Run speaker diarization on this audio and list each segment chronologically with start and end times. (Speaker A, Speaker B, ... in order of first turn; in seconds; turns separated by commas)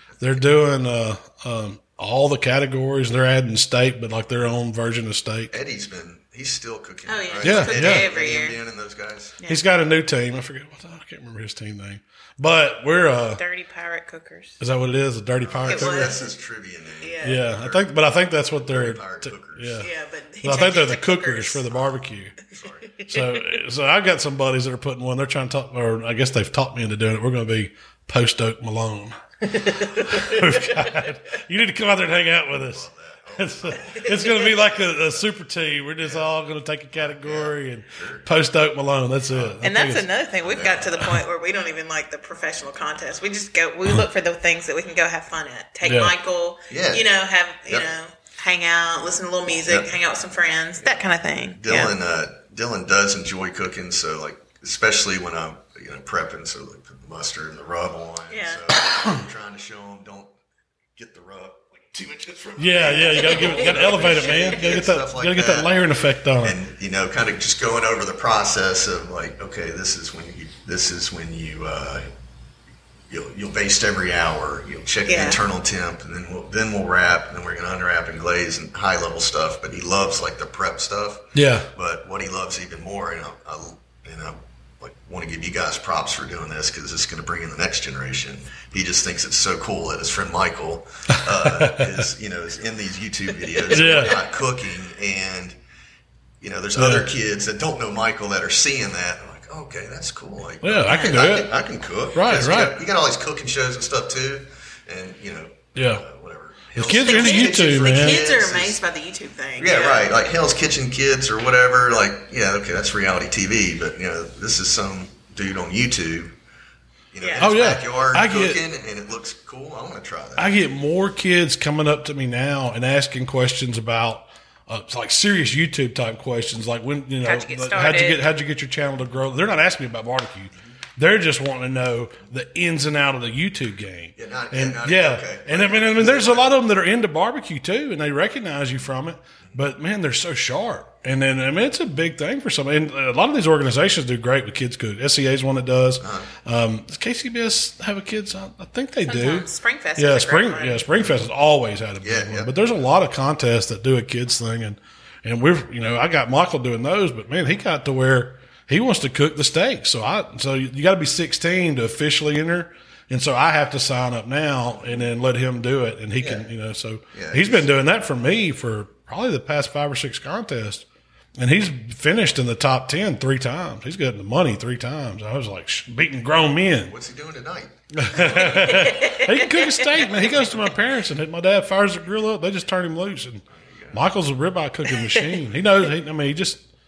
Speaker A: 0.2-5.5, Speaker B: 5.5-9.4, Speaker C: 7.1-8.6, Speaker A: 7.4-8.1, Speaker A: 9.5-13.4, Speaker C: 13.4-14.6, Speaker A: 14.6-16.1, Speaker B: 15.4-17.9, Speaker C: 15.7-16.3, Speaker C: 17.0-17.4, Speaker A: 17.2-19.9, Speaker B: 18.7-19.9, Speaker C: 19.8-21.9, Speaker A: 20.4-22.4, Speaker B: 22.5-22.9, Speaker C: 22.9-23.5, Speaker A: 23.1-40.1, Speaker C: 29.6-31.1, Speaker B: 32.5-35.2, Speaker C: 33.9-34.5, Speaker B: 36.0-36.3, Speaker B: 36.9-38.3, Speaker B: 39.3-39.6, Speaker C: 39.6-51.9, Speaker B: 40.4-41.1, Speaker A: 45.9-46.1, Speaker B: 46.7-47.1, Speaker B: 49.7-49.9, Speaker B: 51.6-60.3, Speaker C: 58.3-58.7, Speaker B: 61.0-65.7, Speaker A: 62.6-66.6, Speaker C: 62.9-64.8, Speaker B: 66.4-72.1, Speaker B: 73.1-95.6, Speaker C: 75.1-75.4, Speaker A: 81.3-81.7, Speaker A: 91.1-92.0, Speaker A: 93.7-94.2, Speaker C: 93.8-94.2, Speaker B: 96.4-108.8, Speaker A: 96.8-97.1, Speaker A: 100.6-101.5, Speaker C: 100.9-101.2, Speaker A: 102.1-102.8, Speaker A: 105.8-106.0, Speaker A: 106.8-108.2, Speaker C: 106.9-110.1, Speaker B: 109.6-116.3, Speaker B: 117.1-120.6, Speaker C: 117.2-117.5, Speaker A: 117.4-118.6, Speaker A: 120.4-170.8, Speaker C: 127.2-128.2, Speaker B: 134.2-136.6, Speaker B: 146.0-146.3, Speaker C: 149.1-150.9, Speaker B: 152.0-152.8, Speaker B: 164.7-165.1, Speaker B: 166.2-166.5, Speaker B: 167.1-167.7, Speaker A: 171.4-176.9, Speaker B: 176.8-178.8, Speaker A: 177.9-186.6, Speaker C: 178.3-180.1, Speaker B: 183.5-184.0, Speaker C: 184.9-185.4